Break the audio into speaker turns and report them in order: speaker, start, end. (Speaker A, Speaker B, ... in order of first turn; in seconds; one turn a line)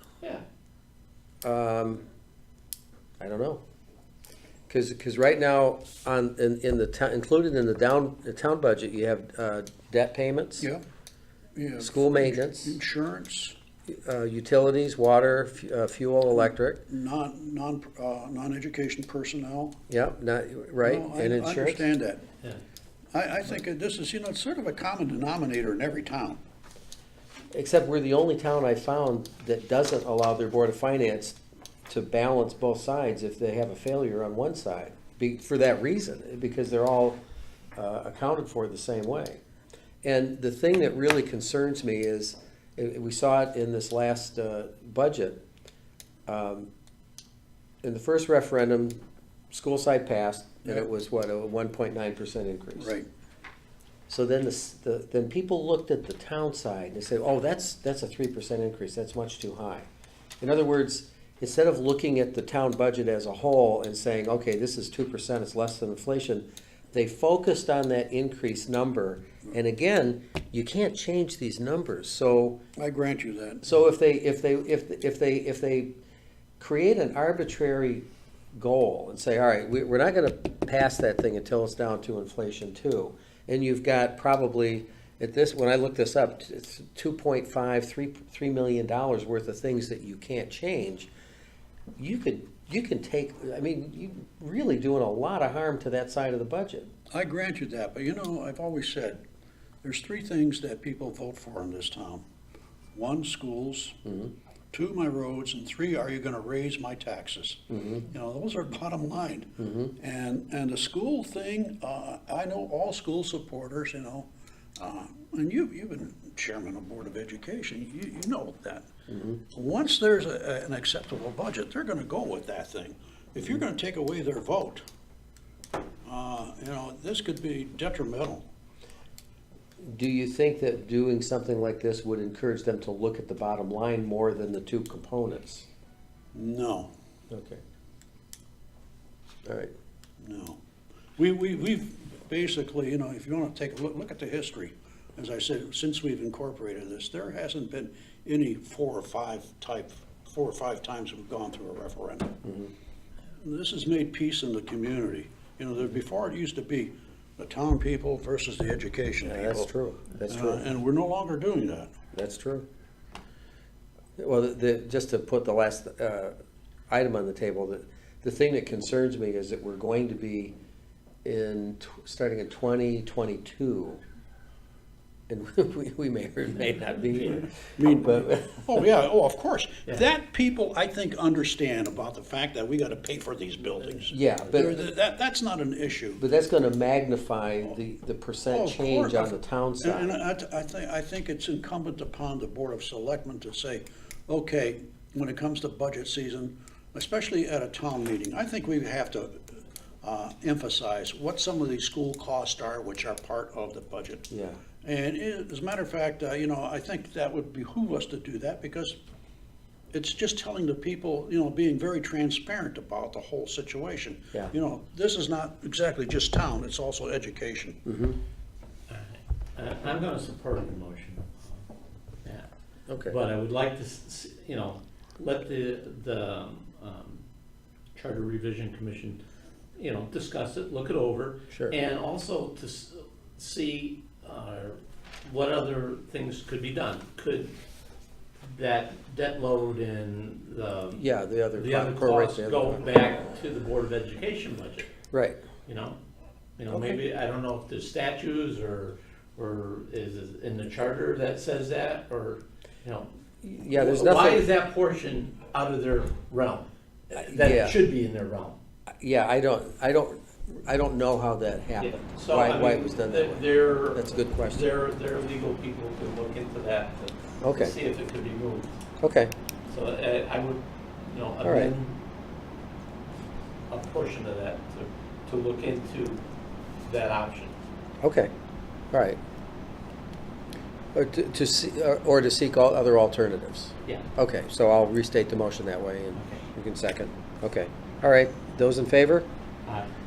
Speaker A: 1.4-2.0
Speaker A: 3.2-3.6
Speaker A: 4.7-10.7
Speaker B: 11.6-13.6
Speaker A: 11.8-12.8
Speaker A: 13.9-16.8
Speaker B: 16.9-19.8
Speaker A: 19.9-21.8
Speaker B: 20.8-22.2
Speaker B: 23.1-26.4
Speaker A: 27.5-37.2
Speaker A: 37.8-39.4
Speaker A: 40.0-45.4
Speaker A: 46.3-46.7
Speaker A: 47.8-49.0
Speaker A: 49.5-53.0
Speaker B: 52.8-53.1
Speaker A: 54.1-59.9
Speaker A: 60.4-72.6
Speaker B: 72.8-73.7
Speaker A: 73.6-75.9
Speaker A: 76.6-91.1
Speaker A: 92.0-96.9
Speaker B: 97.1-99.2
Speaker B: 99.8-102.2
Speaker B: 102.9-104.0
Speaker A: 104.1-104.3
Speaker B: 104.7-118.9
Speaker A: 107.7-108.0
Speaker A: 109.6-109.9
Speaker A: 119.1-119.4
Speaker B: 119.5-124.8
Speaker B: 126.1-128.4
Speaker A: 129.8-135.7
Speaker B: 136.3-136.9
Speaker A: 137.3-137.6
Speaker A: 139.4-139.7
Speaker B: 140.2-140.6
Speaker B: 141.2-152.3
Speaker A: 152.4-152.7
Speaker B: 153.4-159.7
Speaker A: 159.2-160.7
Speaker B: 160.3-161.9
Speaker A: 162.1-162.7
Speaker A: 164.2-166.3
Speaker A: 166.9-170.5
Speaker A: 171.2-174.0
Speaker A: 175.3-178.7
Speaker B: 177.8-186.2
Speaker A: 184.1-184.8
Speaker A: 186.2-190.1
Speaker B: 188.5-199.4
Speaker B: 200.0-204.3
Speaker A: 204.3-204.6
Speaker B: 204.8-208.9
Speaker B: 209.9-217.8
Speaker A: 217.8-218.2
Speaker C: 218.9-221.6
Speaker A: 222.9-223.2
Speaker C: 223.1-227.2
Speaker C: 227.9-229.2
Speaker C: 229.8-237.5
Speaker C: 238.4-241.1
Speaker A: 241.0-242.8
Speaker C: 241.6-244.9
Speaker A: 245.1-245.4
Speaker C: 245.7-246.0
Speaker C: 246.6-253.1
Speaker A: 246.7-247.0
Speaker A: 253.4-254.5
Speaker C: 253.7-258.6
Speaker A: 257.2-257.8
Speaker A: 259.0-264.7
Speaker C: 261.8-268.7
Speaker A: 267.4-267.8
Speaker A: 269.0-269.3
Speaker C: 269.7-272.0
Speaker A: 271.4-271.7
Speaker C: 273.7-276.2
Speaker C: 276.8-277.6
Speaker A: 278.0-278.3
Speaker A: 278.9-279.2
Speaker A: 280.9-289.3
Speaker C: 286.2-286.4